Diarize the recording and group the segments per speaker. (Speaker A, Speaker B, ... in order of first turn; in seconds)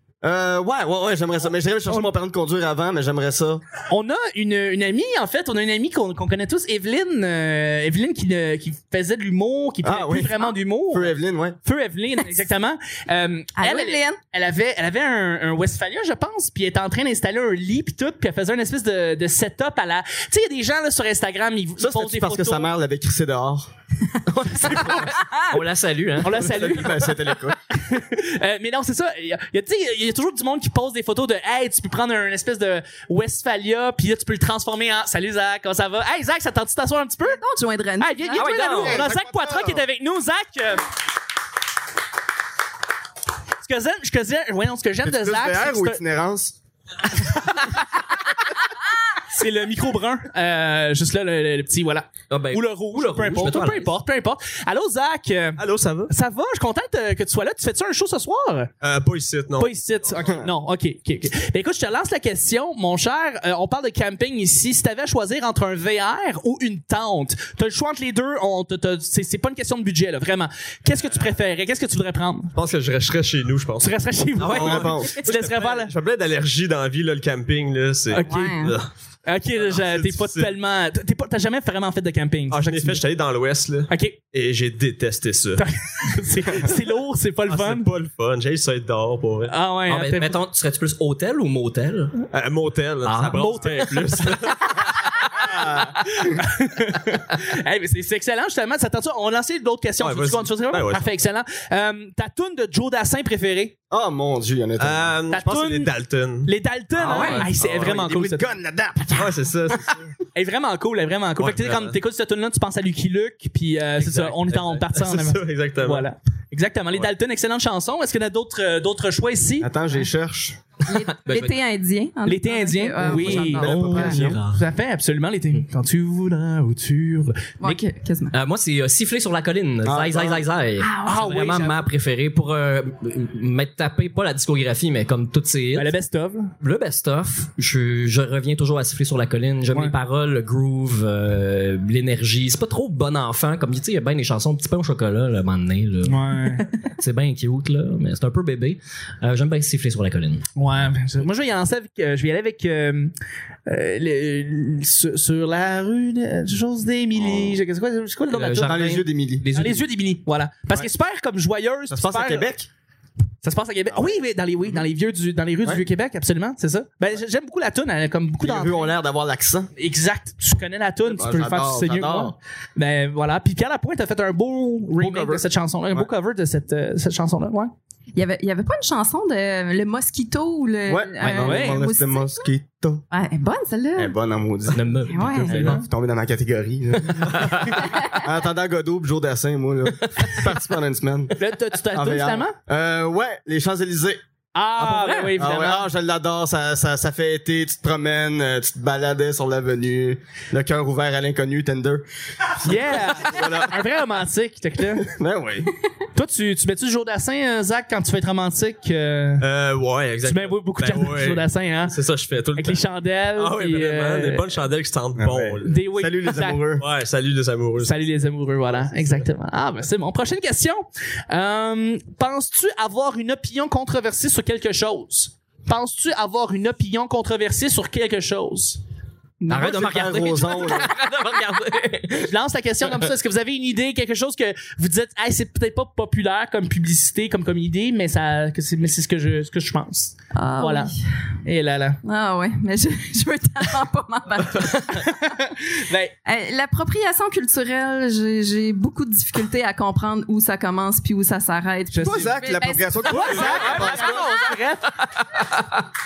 Speaker A: 0.2-3.6, 9.8-11.6, 21.8-23.7, 26.3-27.6, 38.8-39.8, 45.0-46.5, 74.5-75.1, 95.4-95.9, 103.9-105.2, 107.6-109.3, 119.6-120.6, 123.0-124.4, 129.8-130.4, 157.2-157.5, 158.6-159.4, 161.9-162.7, 168.4-169.7, 171.1-172.3, 175.0-176.1, 180.9-183.0, 184.0-191.4, 191.9-194.2, 195.3-203.8, 205.0-205.7, 215.2-216.8, 229.5-230.9, 252.0-254.3
Speaker B: 3.9-11.1, 11.6-22.7, 26.2-27.2, 27.7-37.4, 38.0-40.8, 43.6-46.0, 47.3-47.6, 49.3-58.7, 59.6-72.5, 73.8-75.9, 78.1-78.5, 79.2-83.0, 83.9-84.2, 85.6-87.9, 89.5-90.4, 93.4-94.3, 96.2-103.8, 105.3-105.9, 106.5-108.5, 110.3-119.7, 122.2-127.5, 130.9-131.8, 135.7-136.5, 146.0-146.7, 150.6-153.1, 153.7-159.0, 159.5-162.5, 163.4-168.9, 169.8-177.7, 181.4-181.8, 185.4-185.8, 191.4-192.5, 194.5-195.9, 202.6-205.1, 206.1-209.4, 210.2-211.9, 212.6-214.6, 215.6-216.6, 217.8-228.8, 229.4-229.7, 232.2-240.9, 241.4-242.0, 244.6-246.1, 251.9-252.3, 253.0-255.0
Speaker C: 13.6-14.2, 37.2-39.0, 78.2-78.7, 120.9-124.2, 127.6-128.3, 130.8-131.2, 178.1-182.4, 183.1-184.1, 185.1-185.6, 240.3-240.9, 242.0-245.2, 246.2-254.6
Speaker D: 24.3-26.8, 38.3-39.0, 52.3-53.9, 89.9-92.2, 93.0-94.3, 107.0-107.4, 121.2-121.5, 123.1-124.6, 128.3-135.9, 136.6-150.4, 158.3-159.8, 184.7-185.8, 187.2-187.8, 194.8-195.3, 229.5-232.3, 255.5-255.8
Speaker E: 55.6-56.1, 58.8-59.7, 72.5-78.9, 79.5-80.5, 82.5-85.7, 87.5-89.5, 92.3-95.5, 100.0-101.1, 104.8-108.0, 109.1-110.1, 111.4-112.0, 114.0-116.1, 209.4-212.8, 213.3-215.8, 216.8-217.9